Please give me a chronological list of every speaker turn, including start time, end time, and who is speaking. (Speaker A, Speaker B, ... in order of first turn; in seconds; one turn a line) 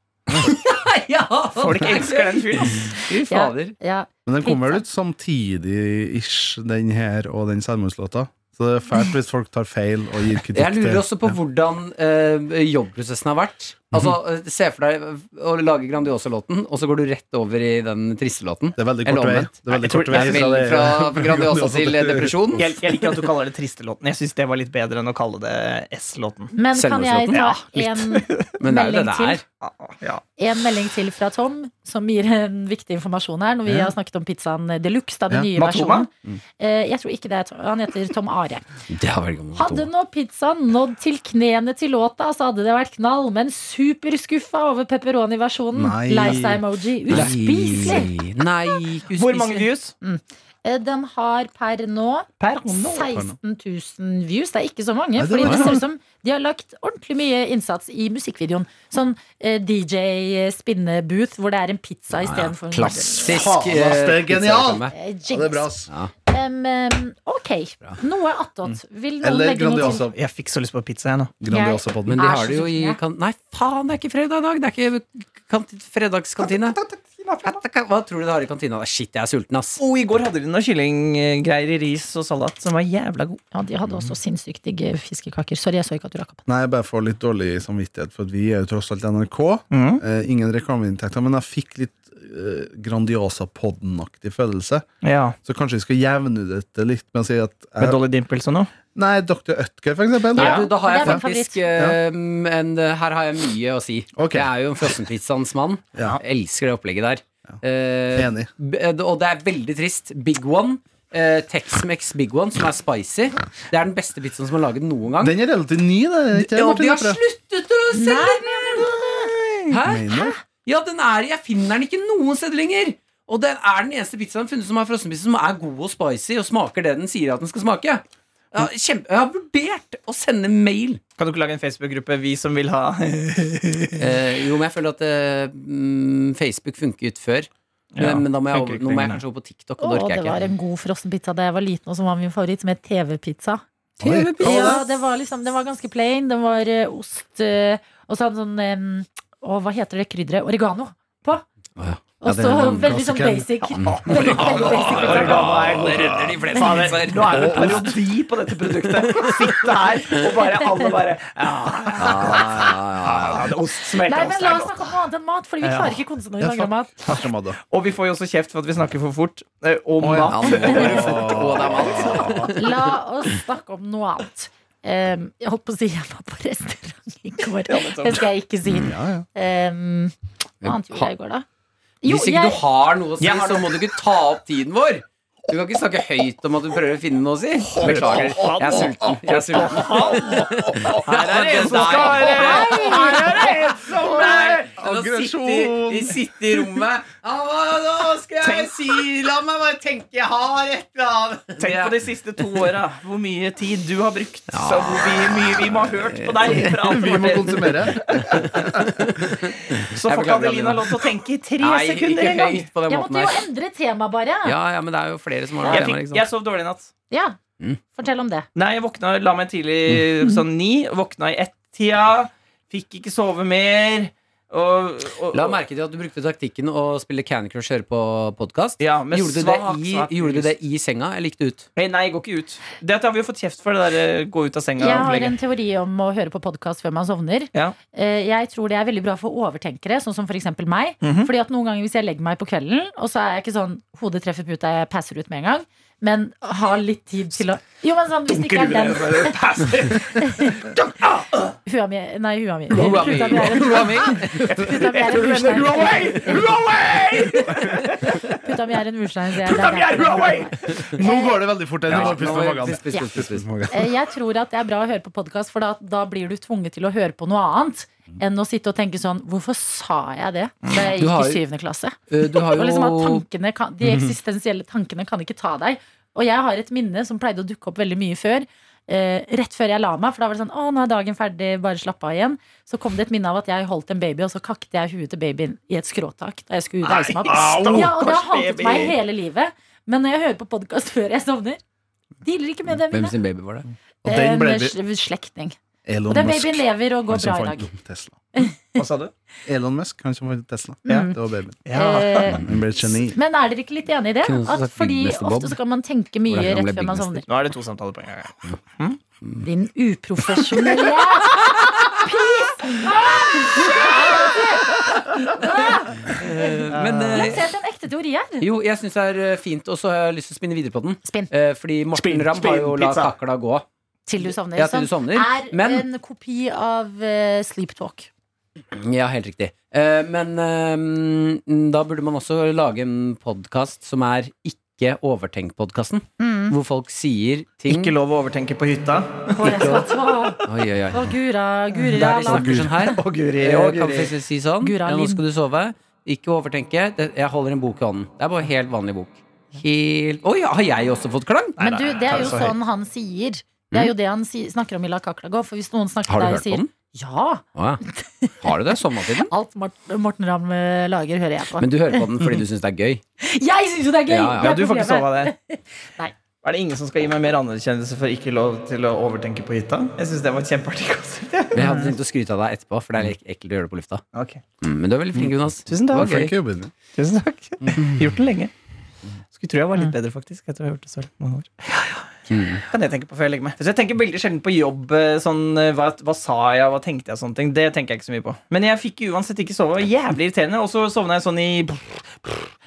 Speaker A: 0.3-3.8
Speaker B: 1.6-2.9
Speaker C: 3.2-4.8
Speaker D: 4.2-11.4
Speaker A: 10.5-22.7
Speaker D: 18.8-22.4
Speaker B: 19.8-20.6
Speaker B: 22.6-26.5
Speaker C: 26.5-29.4
Speaker A: 26.7-28.1
Speaker B: 27.3-27.6
Speaker B: 28.1-28.4
Speaker A: 28.6-29.4
Speaker B: 29.6-30.2
Speaker C: 30.4-38.7
Speaker D: 33.7-33.9
Speaker B: 35.6-36.1
Speaker A: 38.9-39.9
Speaker C: 39.5-48.1
Speaker D: 45.7-47.2
Speaker A: 47.1-49.6
Speaker B: 49.1-49.9
Speaker C: 50.0-63.5
Speaker B: 52.4-53.1
Speaker D: 53.1-53.3
Speaker D: 55.1-55.8
Speaker A: 55.5-55.7
Speaker A: 62.1-64.9
Speaker D: 63.3-65.9
Speaker C: 64.9-65.7
Speaker C: 66.3-70.1
Speaker D: 69.2-70.2
Speaker B: 69.9-71.3
Speaker D: 71.4-72.2
Speaker C: 71.5-73.0
Speaker A: 72.1-76.8
Speaker B: 77.0-77.3
Speaker A: 77.4-79.8
Speaker B: 79.8-83.4
Speaker C: 83.5-86.4
Speaker D: 86.5-94.8
Speaker B: 89.7-90.0
Speaker B: 95.0-95.3
Speaker D: 95.4-98.0
Speaker B: 97.8-98.7
Speaker D: 98.9-101.2
Speaker A: 100.3-115.3
Speaker B: 100.4-100.7
Speaker C: 100.5-101.6
Speaker D: 104.2-104.5
Speaker D: 108.1-108.5
Speaker D: 115.2-117.2
Speaker A: 116.5-118.9
Speaker C: 117.9-119.3
Speaker A: 119.7-131.0
Speaker D: 119.8-120.3
Speaker C: 120.1-120.3
Speaker B: 131.2-134.0
Speaker A: 134.0-140.4
Speaker B: 137.9-139.2
Speaker C: 139.8-143.6
Speaker A: 144.0-144.8
Speaker D: 144.0-144.8
Speaker C: 144.3-151.4
Speaker A: 151.8-153.0
Speaker C: 152.2-155.5
Speaker D: 152.6-153.5
Speaker A: 153.8-157.8
Speaker B: 154.1-164.9
Speaker D: 155.9-156.4
Speaker A: 162.0-163.5
Speaker C: 164.1-167.0
Speaker B: 165.6-166.0
Speaker D: 166.4-167.6
Speaker B: 167.1-172.0
Speaker D: 170.0-172.5
Speaker A: 170.3-172.8
Speaker C: 172.6-181.4
Speaker B: 177.7-178.2
Speaker D: 178.8-179.3
Speaker A: 180.6-181.1
Speaker C: 182.0-182.6
Speaker A: 182.0-201.9
Speaker B: 183.2-183.8
Speaker D: 187.7-191.1
Speaker B: 187.8-194.7
Speaker D: 191.7-192.2
Speaker C: 192.1-193.4
Speaker D: 194.0-196.2
Speaker B: 198.4-198.9
Speaker B: 201.6-208.9
Speaker A: 204.5-206.7
Speaker D: 206.8-208.0
Speaker A: 208.3-210.9
Speaker B: 209.4-212.7
Speaker A: 211.6-213.4
Speaker C: 212.9-214.6
Speaker A: 214.4-216.3
Speaker B: 215.6-216.9
Speaker C: 217.1-217.4
Speaker C: 217.9-218.5
Speaker B: 218.5-225.6
Speaker A: 225.3-231.7
Speaker B: 228.8-230.5
Speaker B: 231.8-235.4
Speaker C: 234.8-249.3
Speaker B: 241.0-241.3
Speaker B: 248.3-251.5
Speaker C: 250.2-250.7
Speaker C: 251.6-256.6
Speaker A: 252.7-254.5
Speaker B: 254.4-258.4
Speaker C: 258.1-261.6
Speaker B: 259.4-260.9
Speaker D: 261.0-263.8
Speaker A: 261.9-263.5
Speaker C: 263.7-291.6
Speaker A: 271.0-271.4
Speaker A: 272.1-273.2
Speaker B: 286.8-288.9
Speaker C: 292.2-293.2
Speaker A: 292.9-293.7
Speaker D: 294.0-294.8
Speaker C: 294.0-295.6
Speaker D: 295.9-298.1
Speaker C: 296.1-297.7
Speaker C: 298.3-298.6
Speaker B: 298.8-299.1
Speaker D: 299.4-301.6
Speaker C: 300.9-301.2
Speaker B: 300.9-301.1
Speaker B: 301.6-302.2
Speaker C: 301.7-307.2
Speaker D: 302.3-303.2
Speaker A: 304.2-305.6
Speaker A: 306.3-307.2
Speaker B: 307.3-309.0
Speaker C: 309.4-316.1
Speaker A: 316.1-317.4
Speaker B: 316.7-317.4
Speaker C: 317.1-318.5
Speaker A: 318.4-323.6
Speaker C: 321.0-321.3
Speaker B: 321.9-323.1
Speaker C: 324.1-328.1
Speaker A: 324.2-325.9
Speaker A: 328.8-337.9
Speaker C: 336.2-336.6
Speaker B: 337.7-339.9
Speaker C: 339.4-340.4
Speaker A: 340.5-341.1
Speaker C: 340.9-342.9
Speaker B: 341.7-344.1
Speaker A: 342.0-351.6
Speaker D: 342.3-342.7
Speaker C: 344.6-345.2
Speaker B: 351.6-352.6
Speaker C: 351.6-362.1
Speaker A: 356.1-356.7
Speaker A: 357.5-357.8
Speaker A: 358.4-359.3
Speaker A: 361.6-363.0
Speaker C: 363.2-366.1
Speaker A: 364.1-364.6
Speaker B: 364.4-365.3
Speaker B: 366.4-371.9
Speaker A: 371.5-374.0
Speaker B: 374.1-374.4
Speaker A: 374.6-376.3
Speaker B: 375.7-376.3
Speaker D: 376.0-376.7
Speaker B: 376.9-378.5
Speaker B: 379.3-382.1
Speaker A: 382.3-382.6
Speaker B: 382.7-392.4